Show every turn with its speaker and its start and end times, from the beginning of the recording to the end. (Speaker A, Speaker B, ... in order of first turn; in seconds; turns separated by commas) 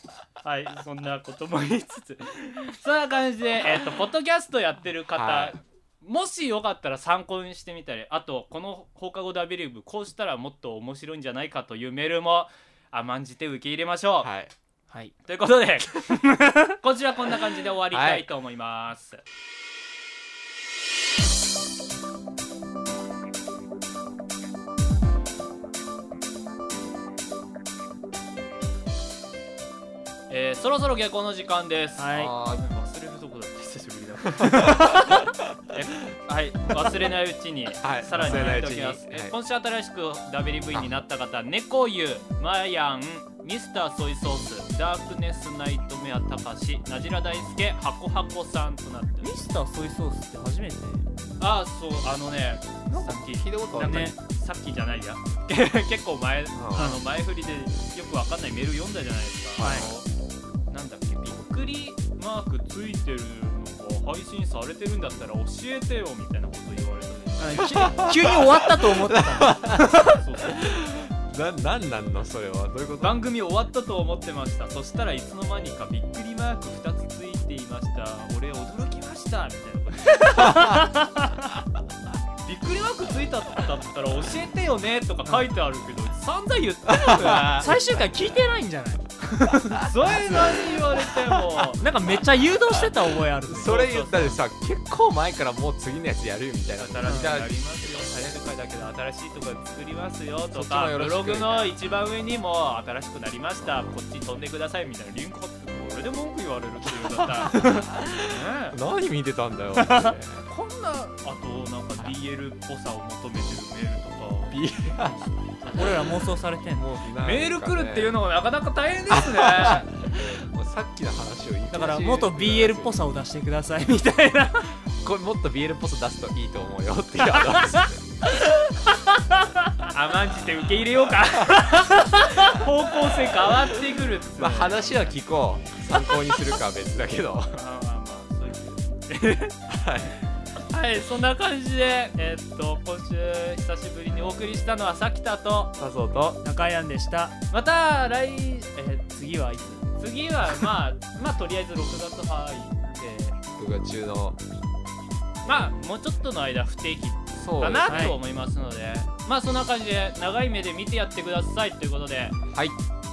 Speaker A: 0.4-14.3, Speaker B: 5.1-5.6, Speaker B: 14.2-14.5, Speaker A: 15.2-19.2, Speaker B: 17.9-18.3, Speaker A: 30.3-35.2, Speaker C: 32.0-32.4, Speaker B: 32.1-32.6, Speaker B: 34.4-35.2, Speaker A: 35.7-49.4, Speaker B: 37.8-39.4, Speaker C: 38.1-38.6, Speaker C: 49.2-51.1, Speaker A: 51.4-60.1, Speaker B: 52.9-54.1, Speaker C: 53.7-54.2, Speaker B: 56.5-56.9, Speaker C: 56.7-57.0, Speaker B: 59.6-60.0, Speaker C: 59.6-59.9, Speaker A: 60.7-68.1, Speaker C: 67.4-70.2, Speaker B: 67.8-73.2, Speaker A: 70.0-70.6, Speaker A: 73.0-80.9, Speaker B: 80.4-80.9, Speaker C: 80.5-80.9, Speaker A: 82.4-88.0, Speaker B: 86.9-87.8, Speaker C: 87.3-90.5, Speaker B: 89.8-90.6, Speaker A: 89.8-91.9, Speaker B: 91.3-91.7, Speaker C: 91.8-94.4, Speaker B: 92.7-98.2, Speaker A: 93.6-94.3, Speaker A: 96.8-108.8, Speaker C: 97.1-97.4, Speaker B: 100.5-101.8, Speaker B: 106.9-110.5, Speaker A: 110.5-116.1, Speaker B: 114.5-115.2, Speaker C: 115.8-116.9, Speaker B: 116.7-118.1, Speaker A: 117.2-119.9, Speaker B: 119.1-123.1, Speaker C: 121.7-124.8, Speaker B: 125.0-128.2, Speaker C: 127.4-127.7, Speaker A: 129.9-135.2, Speaker B: 134.4-137.6, Speaker A: 137.5-139.6, Speaker B: 139.7-140.2, Speaker A: 140.6-145.8, Speaker B: 145.8-146.4, Speaker C: 146.4-147.4, Speaker A: 147.5-149.2, Speaker C: 149.1-149.9, Speaker A: 149.9-153.4, Speaker B: 153.6-154.4, Speaker A: 155.4-162.4, Speaker B: 157.4-158.2, Speaker C: 157.9-158.2